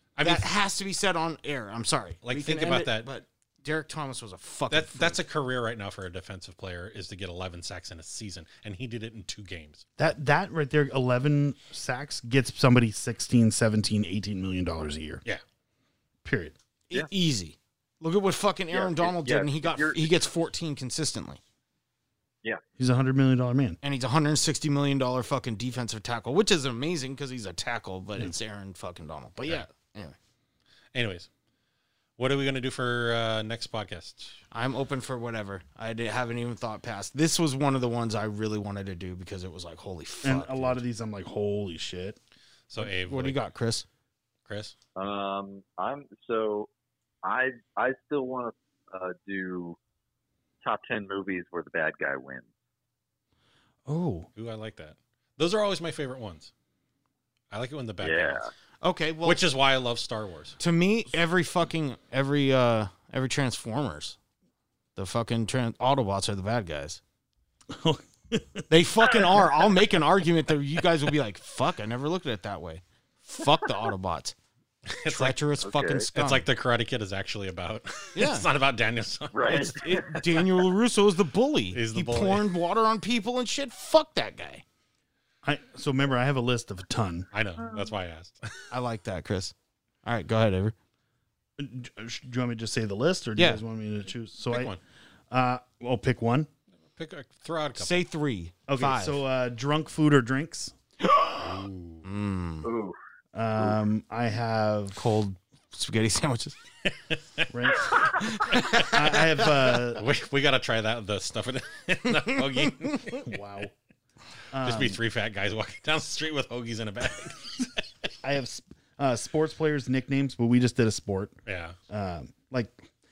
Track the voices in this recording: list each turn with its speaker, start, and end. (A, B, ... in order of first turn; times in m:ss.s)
0:00.2-0:00.6 A
0:00.2-0:05.2 B
0:02.2-0:03.1 A
0:04.7-0:09.8 A
0:10.0-0:15.2 C
0:16.2-0:16.6 C
0:16.9-0:21.4 B
0:18.7-0:20.3 D
0:22.8-0:23.8 C
0:23.8-0:30.2 B
0:30.9-0:31.3 A
0:32.2-0:34.4 A
0:34.5-0:40.8 B
0:40.2-0:42.2 C
0:42.7-0:43.4 A
0:42.8-0:43.9 B
0:44.5-0:44.8 A
0:45.0-0:46.7 D
0:47.2-0:49.8 D
0:50.6-0:52.5 D
0:53.9-0:54.3 C
0:54.4-0:56.5 A
0:57.5-0:58.5 A
0:58.0-0:58.5 D
0:58.8-0:59.4 B
0:59.2-1:00.6 A
1:00.6-1:04.2 B
1:05.0-1:07.0 B
1:07.7-1:08.7 C
1:08.7-1:14.4 B
1:14.9-1:15.4 A
1:15.1-1:16.5 B
1:15.6-1:16.1 D
1:16.2-1:19.9 A
1:18.2-1:18.5 B
1:19.3-1:20.4 D
1:19.5-1:24.6 B
1:21.7-1:22.5 A
1:25.4-1:27.3 C
1:27.3-1:28.6 A
1:28.7-1:30.8 B
1:31.6-1:34.8 C
1:33.4-1:33.6 B
1:34.5-1:34.8 A
1:35.3-1:36.5 C
1:37.0-1:38.0 A
1:37.8-1:39.2 B
1:38.7-1:40.8 C
1:41.0-1:42.7 B
1:41.4-1:42.1 A
1:42.6-1:43.0 D
1:43.4-1:45.1 C
1:45.0-1:46.6 B
1:46.8-1:53.3 A
1:47.5-1:50.0 C
1:48.2-1:48.9 B
1:52.3-1:53.2 B
1:53.2-1:53.7 C
1:54.5-1:55.0 C
1:54.6-1:58.1 A
1:58.2-2:01.4 C
2:01.5-2:01.8 A
2:01.9-2:02.9 C